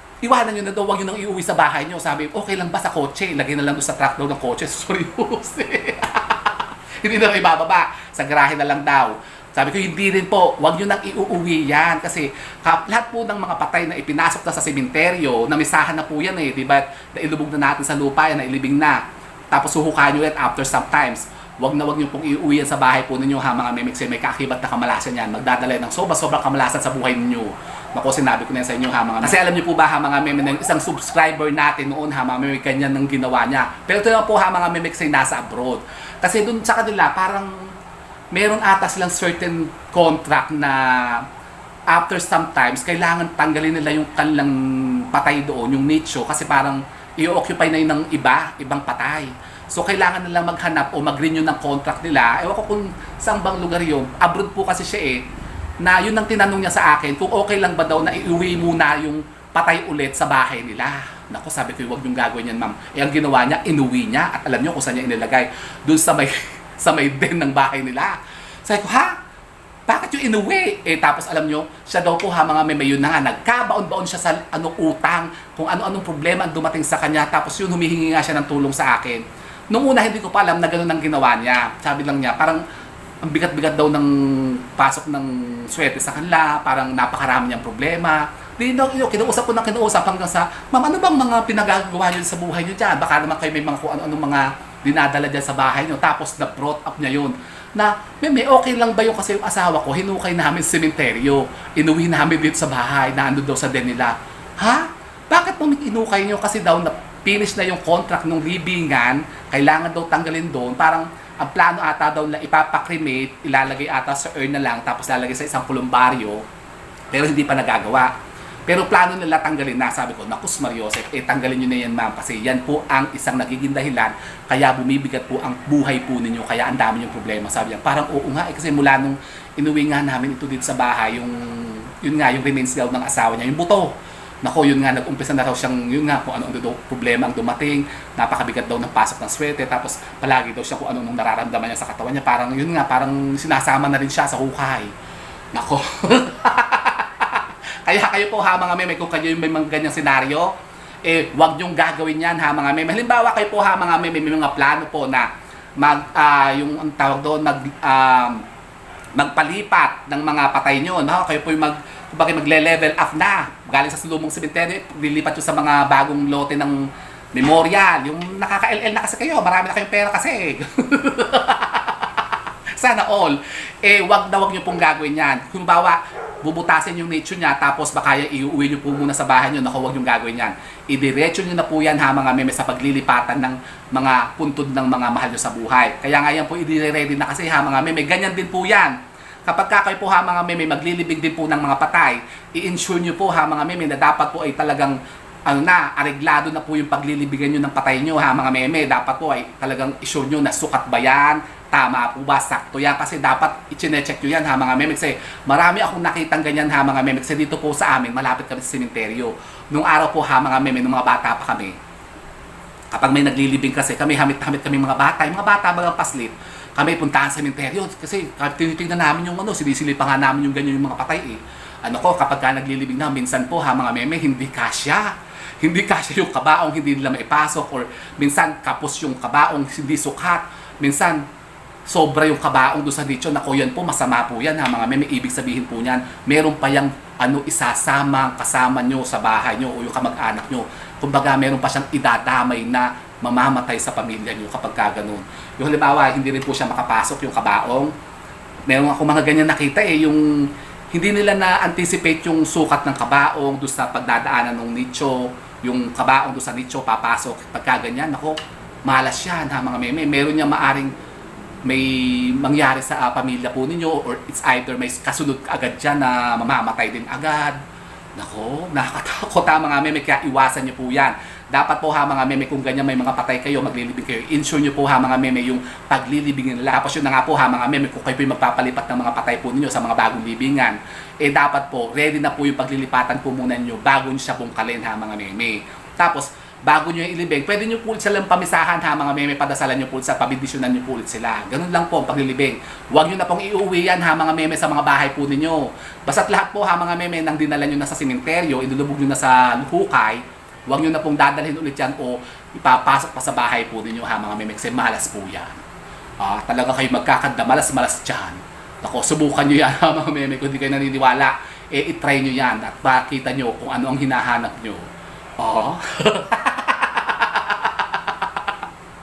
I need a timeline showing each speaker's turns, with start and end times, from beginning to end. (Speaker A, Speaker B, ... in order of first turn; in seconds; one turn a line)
Speaker A: 0.2-37.7
Speaker A: 38.3-41.3
Speaker A: 41.9-55.2
Speaker A: 55.8-69.2
Speaker A: 69.9-82.6
Speaker A: 83.2-116.4
Speaker A: 117.1-118.1
Speaker A: 118.7-144.9
Speaker A: 145.5-158.4
Speaker A: 159.1-172.2
Speaker A: 172.8-211.8
Speaker A: 212.9-231.2
Speaker A: 231.8-247.9
Speaker A: 248.7-260.9
Speaker A: 261.6-267.6
Speaker A: 268.1-305.6
Speaker A: 306.2-314.8
Speaker A: 315.4-318.1